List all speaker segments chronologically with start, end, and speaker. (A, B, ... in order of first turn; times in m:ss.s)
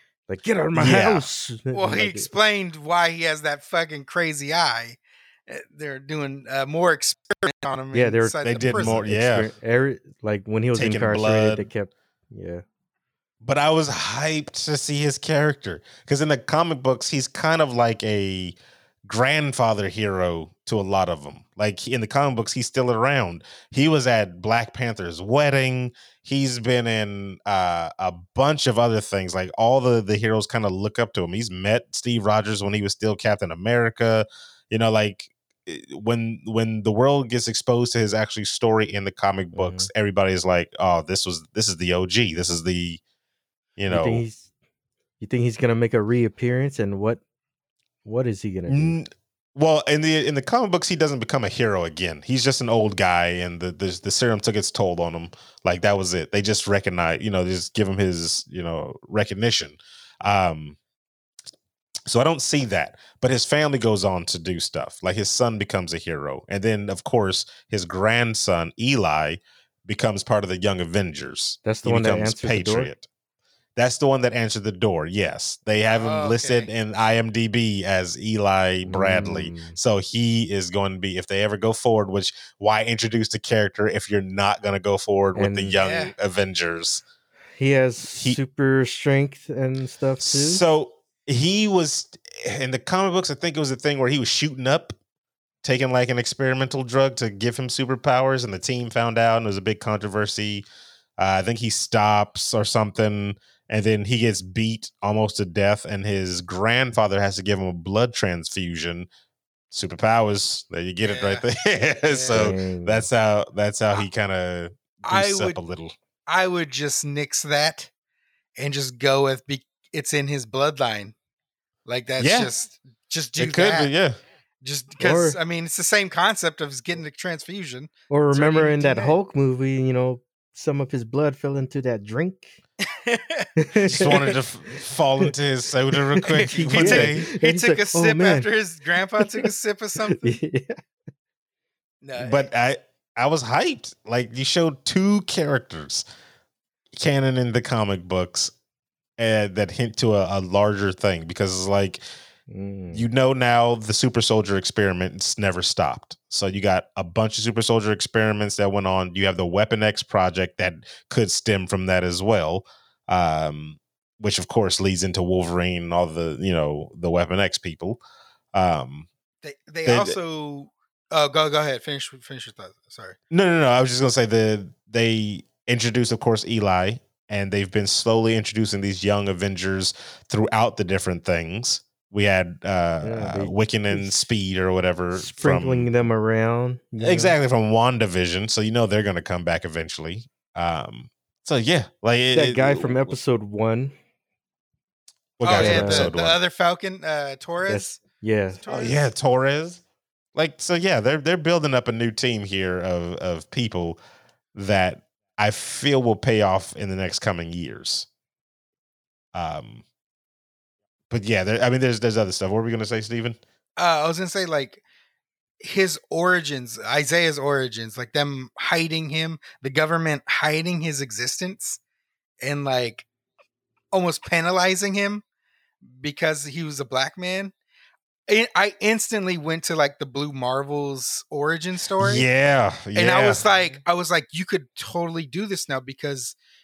0:00.3-0:02.3 A
0:00.7-0:01.3 B
0:01.7-0:09.0 C
0:07.9-0:12.6 A
0:08.4-0:09.5 B
0:10.7-0:11.7 B
0:13.4-0:43.0 B
0:39.5-0:39.9 A
0:43.8-0:44.2 B
0:43.9-0:44.5 A
0:45.2-0:47.2 A
0:48.0-0:49.0 A
0:48.7-1:00.8 B
1:02.1-1:13.0 B
1:11.6-1:12.9 A
1:13.8-1:27.0 B
1:15.9-1:16.7 C
1:18.8-1:19.8 A
1:25.4-1:25.8 A
1:25.8-1:26.1 C
1:27.6-1:30.6 A
1:30.2-1:35.0 B
1:35.6-1:40.6 B
1:41.2-1:49.1 B
1:49.7-1:55.9 B
1:51.0-1:51.4 C
1:52.0-1:52.5 C
1:52.3-1:53.0 A
1:55.0-1:55.6 C
1:56.3-1:57.9 C
1:58.6-2:01.1 C
2:01.8-2:03.9 C
2:02.2-2:02.5 B
2:03.4-2:04.2 B
2:04.6-2:09.2 C
2:05.0-2:05.4 A
2:08.1-2:12.6 A
2:12.8-2:14.4 C
2:13.6-2:14.3 A
2:13.8-2:17.3 B
2:16.1-2:18.5 A
2:16.3-2:20.4 C
2:19.2-2:19.5 A
2:20.1-2:20.8 A
2:22.0-2:22.5 C
2:22.2-2:26.0 B
2:26.9-2:28.5 B
2:29.2-2:32.0 B
2:32.5-2:33.0 A
2:32.9-2:48.0 B
2:48.5-2:49.1 B
2:49.4-2:53.2 C
2:49.8-2:50.2 B
2:53.3-3:06.1 B
3:03.0-3:04.1 A
3:05.1-3:07.4 A
3:07.0-3:13.2 B
3:12.3-3:13.9 A
3:15.4-3:16.4 B
3:15.4-3:18.0 C
3:15.5-3:16.1 A
3:17.6-3:18.6 A
3:18.6-3:19.0 C
3:18.7-3:19.8 B
3:20.3-3:24.0 B
3:24.5-3:28.1 B
3:29.3-3:29.8 B
3:31.1-3:33.4 B
3:33.8-3:34.8 C
3:35.6-3:41.8 C
3:42.4-3:43.0 C
3:43.9-3:45.2 C
3:45.8-3:47.5 C
3:48.3-3:52.2 C
3:52.0-3:53.4 B
3:52.9-3:56.4 C